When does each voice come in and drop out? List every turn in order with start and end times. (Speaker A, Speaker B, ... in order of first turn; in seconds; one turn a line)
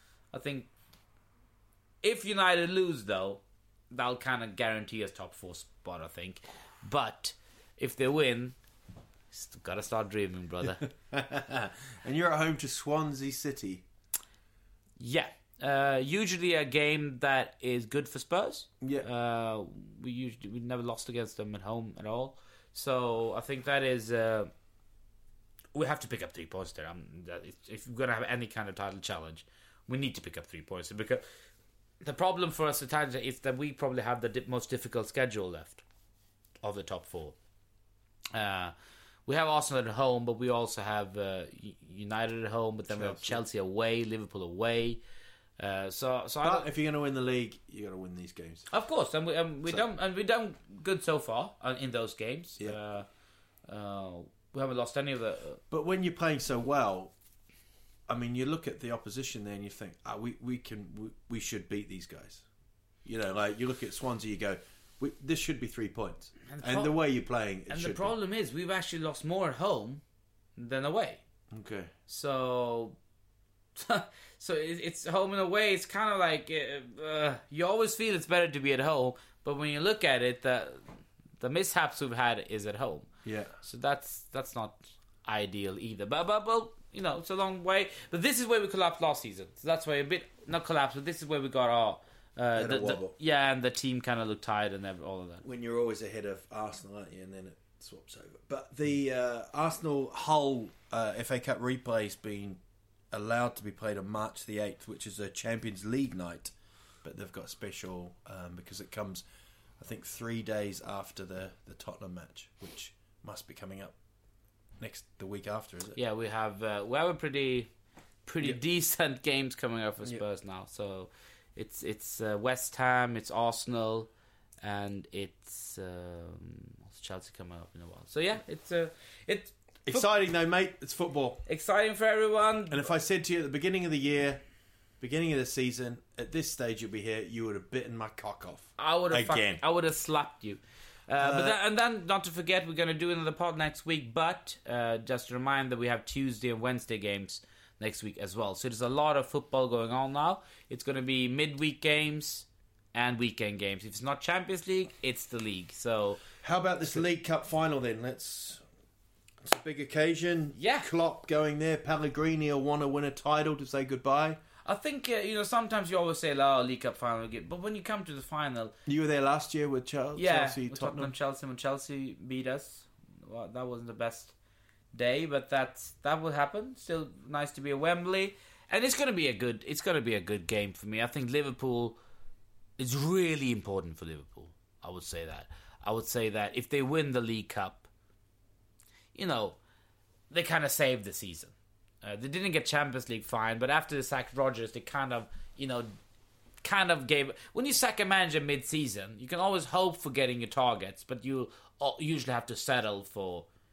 Speaker A: 0.3-0.7
Speaker A: 2.0-8.6
Speaker A: 9.3-10.8
Speaker B: 10.6-13.8
Speaker A: 15.0-24.5
Speaker B: 18.8-19.1
Speaker A: 25.7-31.2
Speaker A: 32.0-35.8
Speaker A: 36.6-37.3
Speaker A: 38.3-38.7
Speaker A: 39.2-45.0
Speaker B: 42.9-43.4
Speaker A: 45.6-46.7
Speaker B: 46.4-48.7
Speaker A: 48.7-53.1
Speaker A: 53.7-55.6
Speaker B: 55.7-57.1
Speaker B: 58.1-62.4
Speaker B: 63.0-68.1
Speaker A: 66.5-67.0
Speaker A: 67.7-70.0
Speaker A: 70.6-71.2
Speaker B: 71.5-71.9
Speaker A: 72.1-73.0
Speaker A: 73.8-80.8
Speaker A: 81.4-83.1
Speaker B: 83.2-83.5
Speaker A: 83.6-95.4
Speaker B: 92.5-93.1
Speaker B: 95.4-109.2
Speaker B: 109.8-114.0
Speaker B: 114.8-116.0
Speaker A: 115.9-117.7
Speaker A: 118.2-124.1
Speaker A: 124.6-130.1
Speaker B: 129.8-131.4
Speaker A: 131.5-132.9
Speaker B: 132.7-134.4
Speaker B: 135.0-139.6
Speaker A: 138.8-156.2
Speaker B: 141.2-141.6
Speaker B: 156.4-158.6
Speaker B: 159.4-164.4
Speaker A: 160.6-160.9
Speaker A: 164.6-168.7
Speaker B: 168.8-171.1
Speaker A: 170.1-174.3
Speaker A: 174.9-182.0
Speaker A: 182.8-187.9
Speaker A: 189.1-189.6
Speaker A: 190.3-195.9
Speaker A: 196.6-203.5